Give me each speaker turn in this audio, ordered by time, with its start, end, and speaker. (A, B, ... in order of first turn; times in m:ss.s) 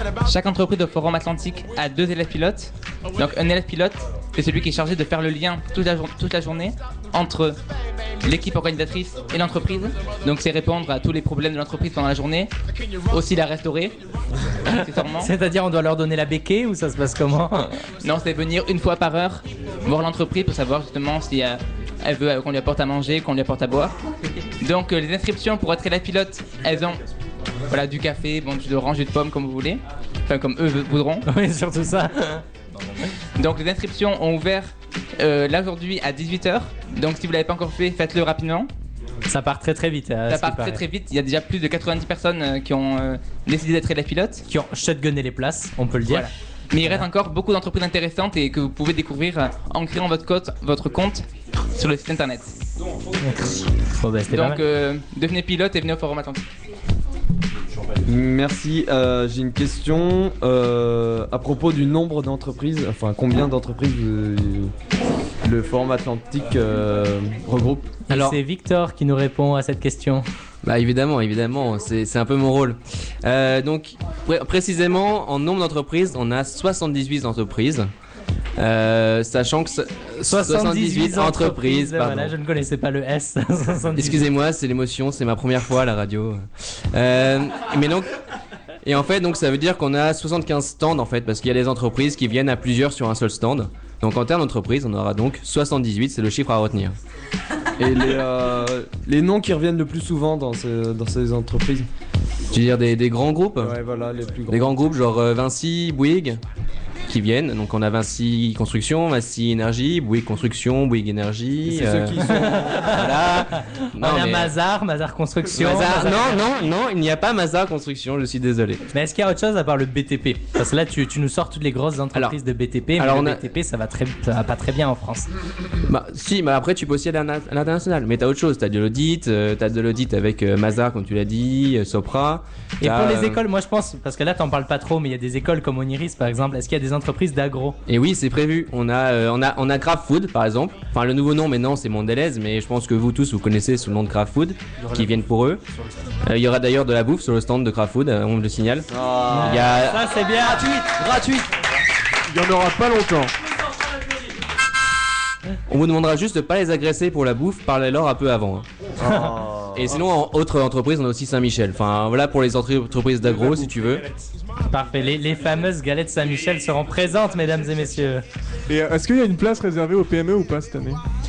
0:00.2-0:07.6 A
0:08.2-0:12.5 A
0:13.1-0:14.0 A
0:14.7-0:15.3 A
0:15.0-0:17.7 B
0:18.0-0:24.0 A
0:24.6-0:27.0 A
0:27.7-0:31.2 A
0:31.3-0:32.4 B
0:33.4-0:38.7 A
0:39.3-0:40.8 B
0:40.3-0:44.4 A
0:44.5-0:46.3 B
0:46.1-0:51.3 A
0:51.8-0:52.5 A
0:53.2-0:54.6 B
0:54.3-0:56.5 A
0:58.1-1:04.7 C
1:05.4-1:08.0 C
1:08.1-1:10.2 B
1:08.1-1:08.4 D
1:10.6-1:17.9 D
1:18.6-1:22.3 D
1:20.2-1:24.3 B
1:23.9-1:28.1 D
1:28.8-1:37.0 D
1:37.8-1:41.9 C
1:42.5-1:43.8 D
1:43.6-1:44.8 C
1:44.5-1:46.4 D
1:47.1-1:54.5 D
1:51.7-1:53.0 C
1:52.3-1:56.4 B
1:55.5-1:58.8 D
1:58.9-2:05.3 B
2:02.1-2:02.4 D
2:03.0-2:03.4 D
2:05.9-2:13.4 D
2:12.8-2:17.8 B
2:17.9-2:25.6 D
2:26.2-2:30.0 D
2:28.9-2:29.9 C
2:29.3-2:30.9 B
2:31.0-2:31.4 C
2:32.3-2:33.3 E
2:35.7-2:38.7 D
2:39.0-2:40.0 C
2:39.7-2:44.1 D
2:44.7-2:48.2 B
2:48.7-2:51.0 E